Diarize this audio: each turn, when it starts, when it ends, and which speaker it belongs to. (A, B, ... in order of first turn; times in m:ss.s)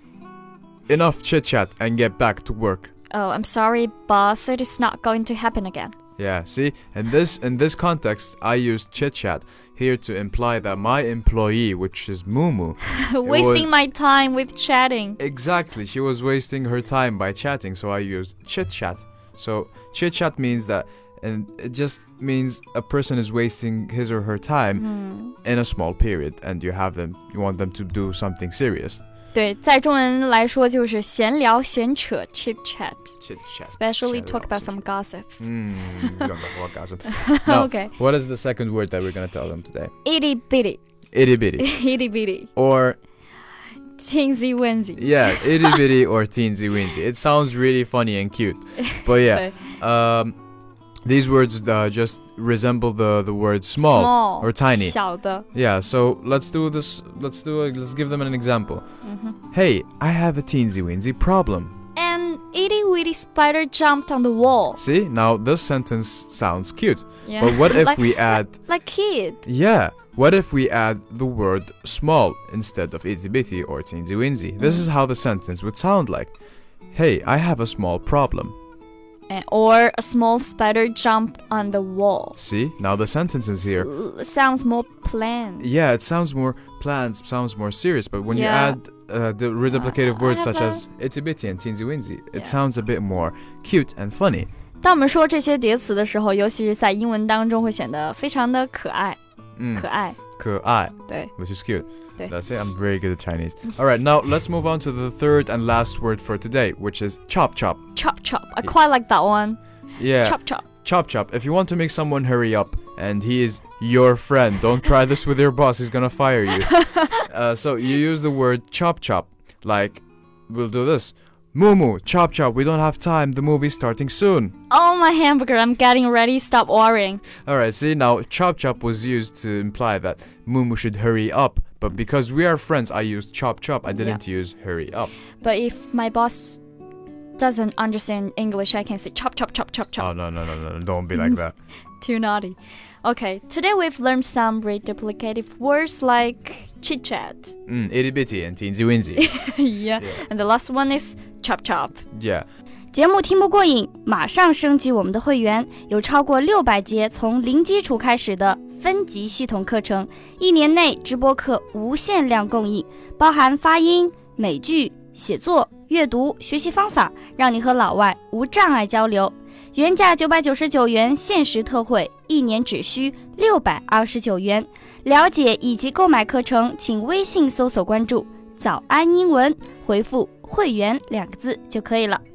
0:00.9-0:02.9 A
0:03.1-0:05.9 B
0:06.2-0:13.7 A
0:13.1-0:15.2 B
0:15.2-0:29.0 A
0:24.8-0:25.4 B
0:29.3-0:35.4 B
0:33.2-0:34.9 A
0:35.4-0:39.9 A
0:36.0-0:36.3 B
0:37.2-0:37.9 B
0:40.0-0:40.8 B
0:41.1-0:41.8 A
0:41.6-0:42.5 B
0:42.6-0:43.0 A
0:44.0-0:45.8 B
0:45.0-0:50.4 A
0:48.9-0:49.7 B
0:51.0-0:55.0 A
0:53.8-0:55.5 B
0:55.5-0:58.8 A
0:59.0-0:59.4 B
0:59.5-1:01.8 A
1:02.0-1:04.8 B
1:04.8-1:08.6 A
1:07.2-1:09.4 B
1:09.4-1:16.3 A
1:14.6-1:14.9 B
1:16.9-1:18.6 A
1:19.3-1:22.4 B
1:22.4-1:23.9 A
1:23.6-1:25.7 B
1:25.6-1:34.5 A
1:28.3-1:28.8 B
1:29.7-1:30.8 B
1:34.8-1:39.2 B
1:39.6-1:47.8 A
1:39.7-1:40.2 B
1:41.1-1:41.3 B
1:48.0-1:49.6 B
1:50.0-2:04.5 A
1:50.2-1:50.6 B
1:56.7-1:57.1 B
2:04.7-2:07.2 B
2:07.4-2:15.1 A
2:13.9-2:14.2 B
2:15.4-2:16.6 B
2:17.4-2:20.1 B
2:20.0-2:21.6 A
2:22.0-2:27.5 B
2:27.7-2:29.4 A
2:29.2-2:32.0 B
2:30.0-2:30.2 A
2:32.1-2:32.4 A
2:32.9-3:02.2 B